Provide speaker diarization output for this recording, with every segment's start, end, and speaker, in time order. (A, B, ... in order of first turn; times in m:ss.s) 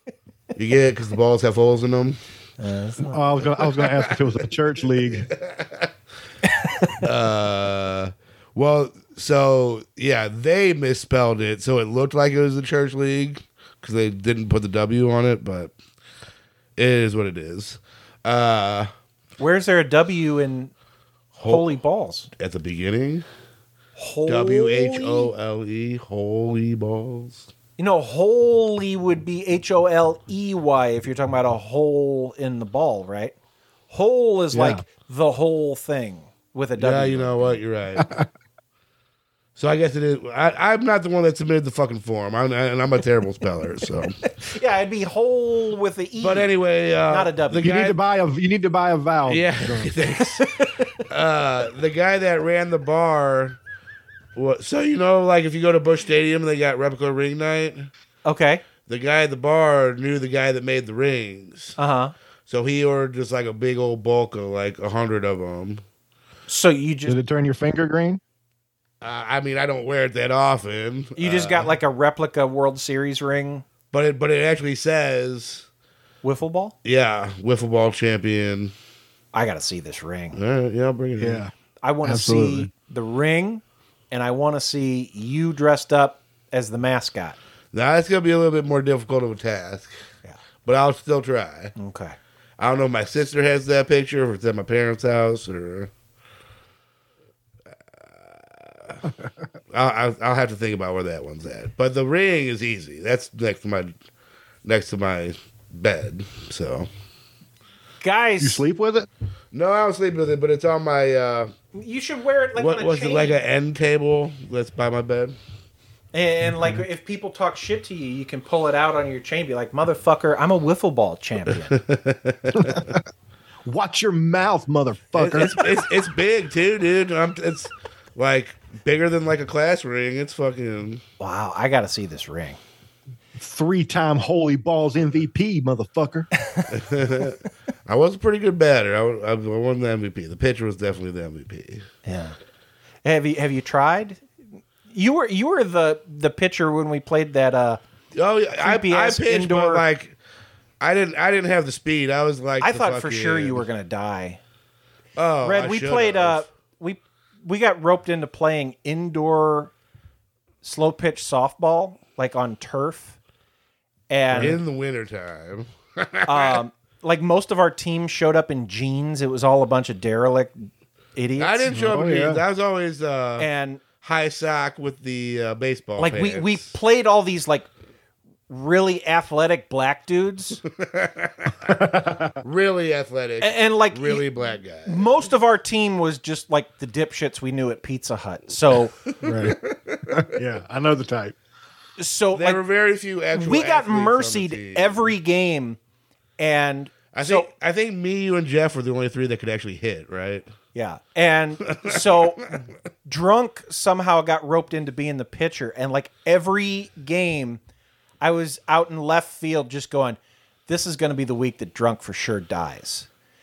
0:00.6-0:02.2 A
0:02.6-0:03.4 B
0:03.1-0:05.3 C
0:03.8-0:04.1 A
0:05.1-0:05.9 A
0:07.0-0:15.7 A
0:16.8-0:18.9 A
0:19.4-0:20.7 B
0:21.4-0:21.7 A
0:21.4-0:22.3 B
0:22.4-0:23.3 A
0:24.0-0:25.3 B
0:24.3-0:27.5 A
0:27.8-0:33.4 B
0:33.9-0:37.6 B
0:34.5-0:34.8 C
0:36.8-0:38.1 A
0:38.0-0:38.3 C
0:39.6-0:44.2 A
0:44.4-0:46.5 B
0:46.2-0:48.0 A
0:47.1-0:47.7 B
0:47.6-0:50.0 C
0:49.3-0:50.5 A
0:50.4-0:50.8 B
0:51.1-0:53.6 A
0:54.4-0:57.9 A
0:58.2-0:58.6 B
0:58.9-1:01.8 A
1:01.8-1:02.1 B
1:02.5-1:05.8 A
1:06.5-1:07.2 B
1:07.1-1:08.2 C
1:09.0-1:11.7 A
1:11.2-1:13.6 B
1:13.9-1:15.7 A
1:16.2-1:16.8 B
1:16.8-1:18.8 A
1:19.3-1:20.4 B
1:20.3-1:21.4 A
1:21.2-1:21.5 C
1:21.8-1:27.4 B
1:22.0-1:22.7 C
1:27.7-1:29.9 A
1:30.6-1:31.7 A
1:31.8-1:32.2 B
1:32.6-1:35.9 A
1:38.0-1:39.0 A
1:39.7-1:44.0 A
1:44.6-1:46.9 A
1:48.0-1:48.6 B
1:48.4-1:49.1 C
1:49.5-1:51.5 A
1:51.7-1:53.4 B
1:52.6-1:55.4 A
1:56.1-2:01.8 B
2:01.7-2:03.0 A
2:02.6-2:03.0 C
2:03.6-2:05.6 C
2:05.2-2:11.0 A
2:11.2-2:12.6 B
2:13.4-2:16.3 C
2:16.7-2:21.9 A
2:22.0-2:22.4 B
2:23.0-2:24.3 B
2:24.9-2:27.8 B
2:28.2-2:30.2 A
2:28.6-2:29.8 B
2:30.8-2:33.6 A
2:32.6-2:34.4 B
2:35.2-2:36.5 A
2:35.4-2:39.7 B
2:40.6-2:43.2 B
2:44.1-2:44.6 B
2:44.3-2:44.6 C
2:44.3-2:46.6 A
2:46.3-2:50.5 B
2:51.2-2:51.9 B
2:51.4-2:53.5 A
2:51.7-2:52.4 C
2:53.4-2:53.8 B
2:54.0-2:56.7 A
2:56.0-2:57.7 B
2:58.5-3:00.6 B
3:00.8-3:05.2 A
3:01.7-3:02.4 C
3:03.4-3:09.0 B
3:09.1-3:10.3 A
3:09.2-3:09.6 C
3:10.1-3:11.4 C
3:12.0-3:12.6 B
3:12.3-3:15.1 A
3:13.3-3:15.8 B
3:16.4-3:17.5 B
3:17.1-3:20.5 A
3:20.7-3:27.6 B
3:21.7-3:22.3 A
3:28.2-3:33.1 B